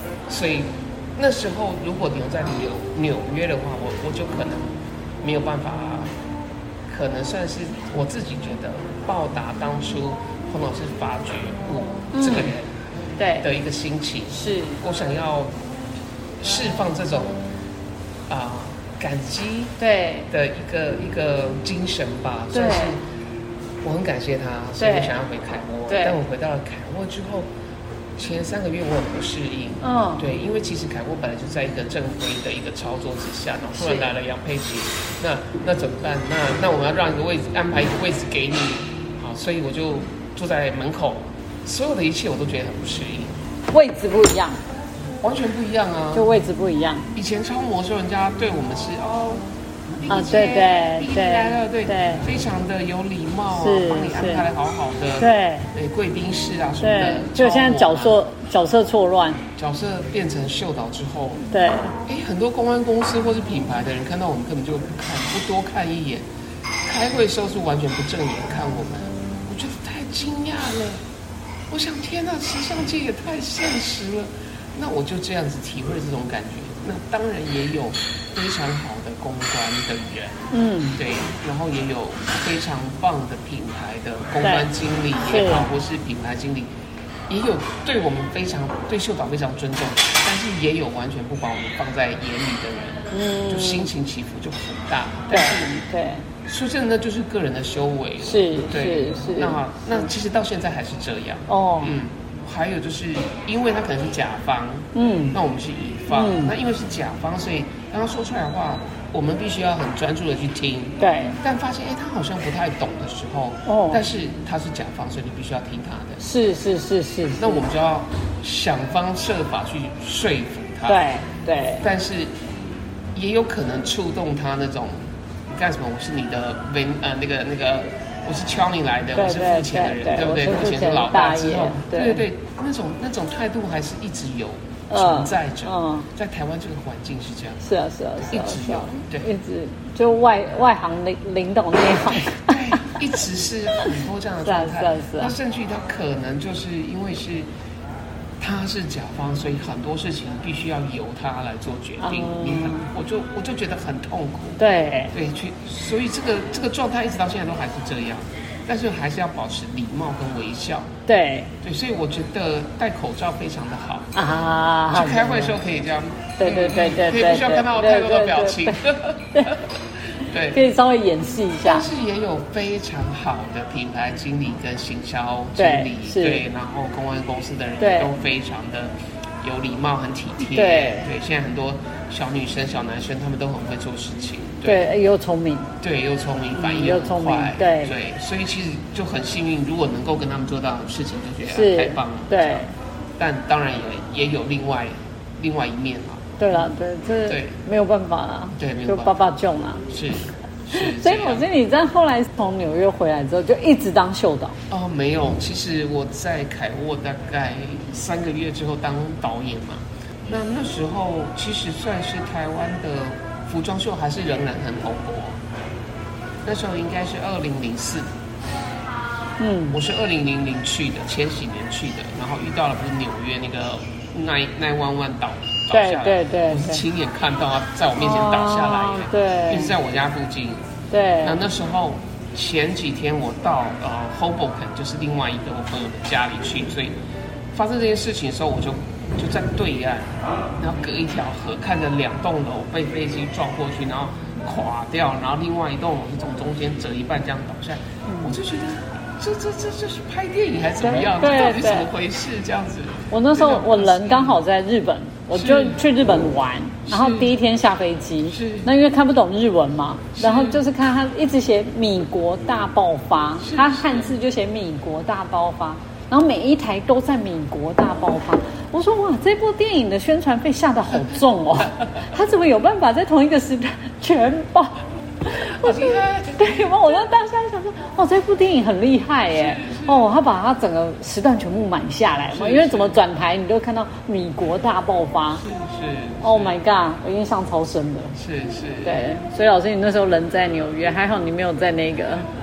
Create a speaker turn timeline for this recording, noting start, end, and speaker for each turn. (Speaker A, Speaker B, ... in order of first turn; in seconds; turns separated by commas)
Speaker A: 0.3-6.1, Speaker A: 6.9-12.7, Speaker B: 12.1-12.5, Speaker B: 13.2-13.5, Speaker A: 13.4-15.5, Speaker B: 14.3-14.8, Speaker A: 16.4-17.4, Speaker A: 18.3-19.7, Speaker B: 19.8-20.3, Speaker A: 20.3-23.0, Speaker B: 22.5-23.0, Speaker A: 23.8-27.5, Speaker B: 24.8-25.1, Speaker B: 25.9-26.2, Speaker A: 28.1-43.3, Speaker B: 29.8-30.2, Speaker B: 33.8-34.1, Speaker B: 43.7-44.6, Speaker A: 45.2-46.3, Speaker B: 46.1-47.1, Speaker A: 47.1-49.5, Speaker A: 50.0-58.2, Speaker B: 50.1-52.2, Speaker B: 53.5-54.5, Speaker B: 55.2-55.7, Speaker B: 56.8-59.4, Speaker A: 59.6-61.4, Speaker B: 61.5-62.0, Speaker A: 62.1-66.2, Speaker A: 66.8-71.0, Speaker A: 71.7-86.7, Speaker B: 80.5-81.0, Speaker B: 84.4-84.7, Speaker B: 85.2-85.7, Speaker A: 87.3-95.8, Speaker B: 93.1-93.9, Speaker B: 95.3-96.2, Speaker A: 96.5-116.2, Speaker B: 98.2-99.6, Speaker B: 101.5-101.9, Speaker B: 105.0-105.4, Speaker B: 106.1-106.5, Speaker B: 111.0-111.4, Speaker B: 113.7-114.0, Speaker B: 116.2-117.6, Speaker A: 117.4-121.0, Speaker B: 120.9-121.8, Speaker A: 121.8-122.3, Speaker A: 123.1-137.6, Speaker B: 129.1-132.2, Speaker B: 134.9-136.1, Speaker B: 137.6-142.9, Speaker A: 138.3-139.3, Speaker A: 142.3-147.5, Speaker B: 144.4-145.3, Speaker A: 148.4-154.6, Speaker B: 152.0-152.9, Speaker B: 154.6-155.1, Speaker A: 155.1-160.9, Speaker B: 161.1-161.5, Speaker A: 161.6-164.1, Speaker B: 164.1-165.6, Speaker A: 164.9-170.6, Speaker B: 166.4-168.8, Speaker B: 170.5-171.9, Speaker A: 171.6-184.9, Speaker B: 175.6-176.4, Speaker B: 177.8-178.1, Speaker B: 180.5-181.1, Speaker B: 184.6-185.7, Speaker A: 185.8-192.6, Speaker B: 186.5-187.9, Speaker B: 191.5-192.7, Speaker A: 193.2-196.6, Speaker B: 196.4-199.9, Speaker A: 197.3-197.6, Speaker A: 198.6-199.1, Speaker A: 199.9-201.5, Speaker B: 200.7-204.6, Speaker A: 204.7-215.4, Speaker A: 216.4-218.1, Speaker B: 219.4-219.8, Speaker A: 219.7-230.6, Speaker B: 225.7-226.8, Speaker B: 228.0-229.8, Speaker B: 230.9-231.4, Speaker A: 231.2-237.0, Speaker A: 237.5-254.4, Speaker B: 248.1-248.3, Speaker B: 250.8-251.9, Speaker B: 253.1-285.4, Speaker A: 255.3-255.8, Speaker A: 256.9-257.4, Speaker A: 258.3-258.7, Speaker A: 260.1-260.6, Speaker A: 263.4-264.1, Speaker A: 271.1-271.9, Speaker A: 275.5-277.1, Speaker A: 279.3-280.1, Speaker A: 282.3-283.0, Speaker A: 285.4-286.6, Speaker B: 286.2-288.1, Speaker A: 288.1-289.1, Speaker B: 288.8-292.3